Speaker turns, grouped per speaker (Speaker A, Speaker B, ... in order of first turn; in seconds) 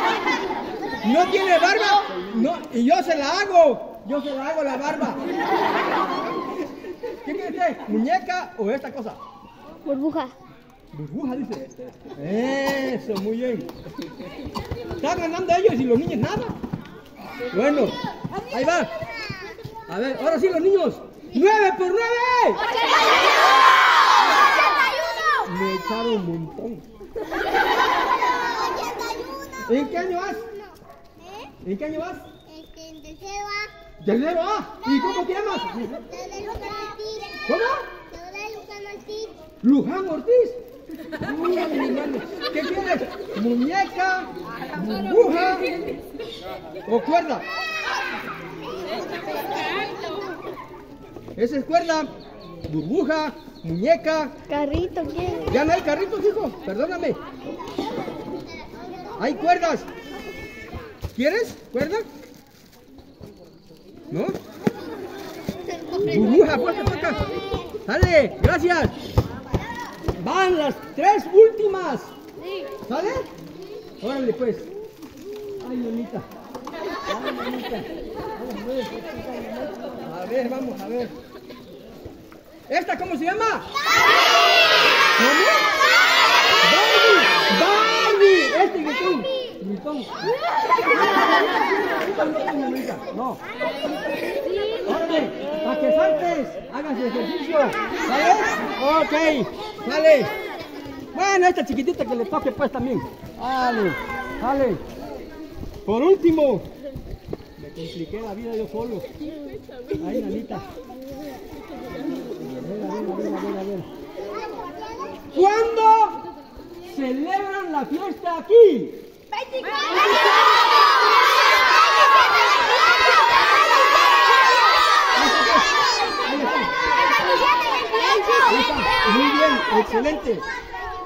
Speaker A: 1.0-5.3, 7.2-9.2, 10.9-13.7, 15.0-16.6, 17.5-18.9, 19.9-22.6, 25.4-26.8, 29.6-30.5, 31.6-32.2, 34.0-36.0, 37.5-37.9, 39.6-40.6, 41.1-45.8, 46.9-47.5, 51.4-52.1, 52.7-54.3, 55.5-57.2, 59.2-59.9, 61.1-62.1, 64.1-64.4, 66.0-67.2, 67.8-69.0, 70.2-72.1, 72.9-73.3, 74.0-74.7, 75.6-76.2, 77.1-79.0, 80.0-81.1, 82.7-83.7, 85.2-85.7, 86.6-90.2, 91.8-93.4, 94.9-100.3, 101.1-104.8, 105.9-106.7, 107.6-109.1, 110.0-110.7, 112.5-113.9, 115.3-116.2, 116.9-119.0, 125.2-126.7, 128.4-130.5
Speaker B: 9.8-10.3, 32.8-33.7, 36.3-37.3, 38.2-39.3, 54.5-55.5, 128.1-128.4